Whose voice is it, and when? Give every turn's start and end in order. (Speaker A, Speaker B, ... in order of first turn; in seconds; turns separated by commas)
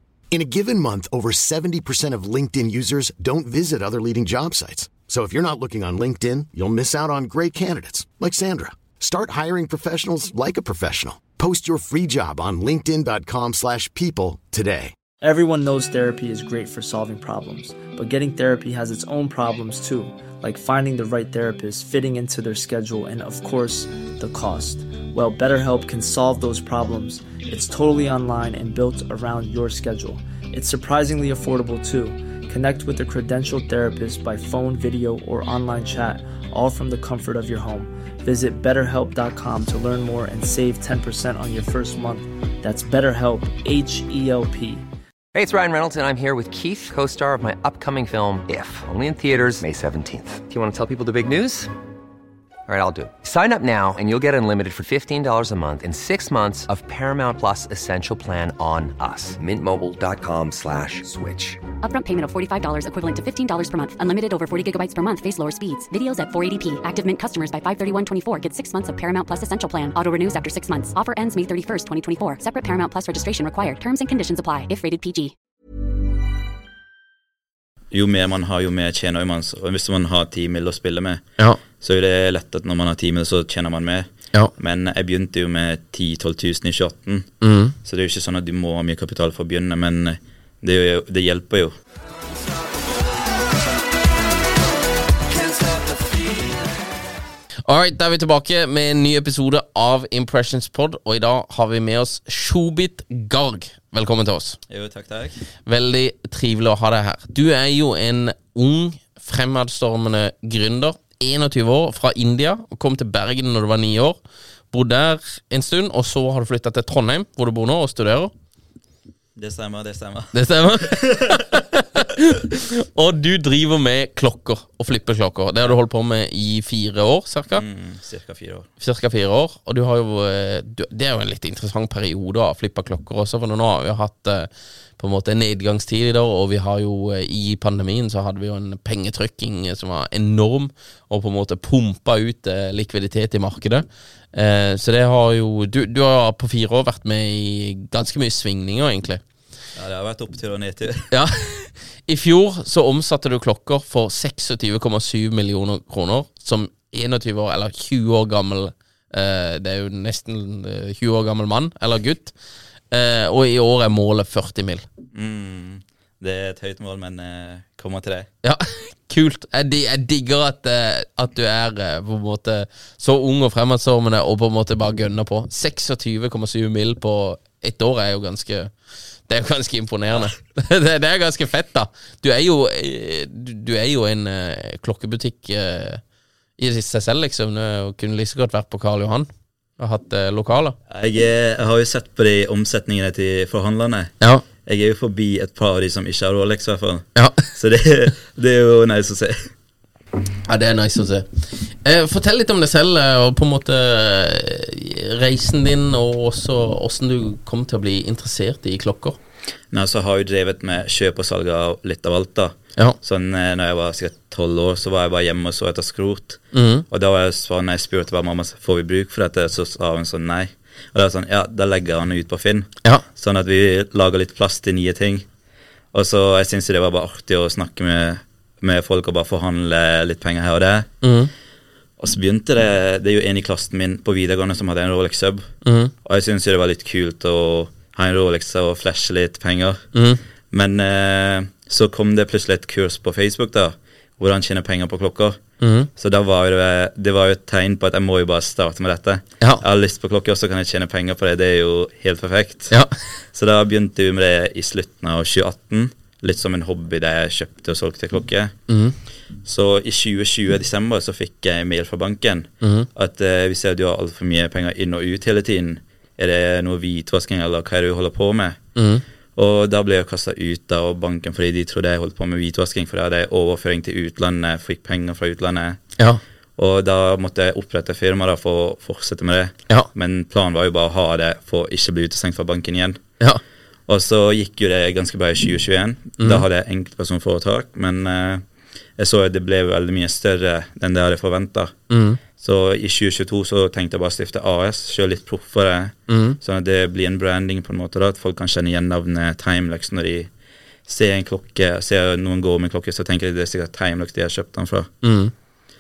Speaker A: 0.3-14.9, Speaker B: 15.2-44.9, Speaker C: 45.3-51.7, Speaker C: 52.7-61.6, Speaker D: 61.8-75.3, Speaker E: 77.9-81.2, Speaker E: 81.8-87.3, Speaker F: 87.4-87.8, Speaker E: 87.8-91.8, Speaker E: 95.5-96.0, Speaker F: 97.7-104.6, Speaker E: 104.7-105.4, Speaker F: 105.7-114.2, Speaker F: 114.7-118.3, Speaker E: 119.3-121.6, Speaker F: 120.3-127.6, Speaker E: 127.5-128.7, Speaker F: 128.8-149.2, Speaker E: 149.8-151.1, Speaker F: 151.1-162.3, Speaker F: 162.9-164.8, Speaker E: 165.1-168.3, Speaker F: 168.4-178.7, Speaker F: 179.3-186.0, Speaker F: 186.6-190.8, Speaker E: 190.9-199.5, Speaker F: 197.2-197.5, Speaker F: 200.5-209.2, Speaker E: 209.7-225.3, Speaker F: 216.5-216.9, Speaker E: 225.9-230.9, Speaker F: 231.0-231.3, Speaker E: 232.0-235.5, Speaker F: 235.6-235.9, Speaker E: 236.0-239.9, Speaker F: 239.9-240.2, Speaker E: 240.5-245.4, Speaker F: 245.6-245.9, Speaker E: 246.0-252.8, Speaker E: 253.3-258.6, Speaker F: 258.7-259.0, Speaker E: 259.4-268.6, Speaker F: 262.6-262.9, Speaker F: 268.8-269.0, Speaker E: 269.4-275.8, Speaker E: 276.6-283.0, Speaker E: 283.9-288.4, Speaker F: 286.2-286.4, Speaker E: 289.0-291.8, Speaker F: 291.9-292.2, Speaker E: 292.4-300.3, Speaker F: 296.1-296.4, Speaker E: 300.9-304.9, Speaker F: 305.0-305.3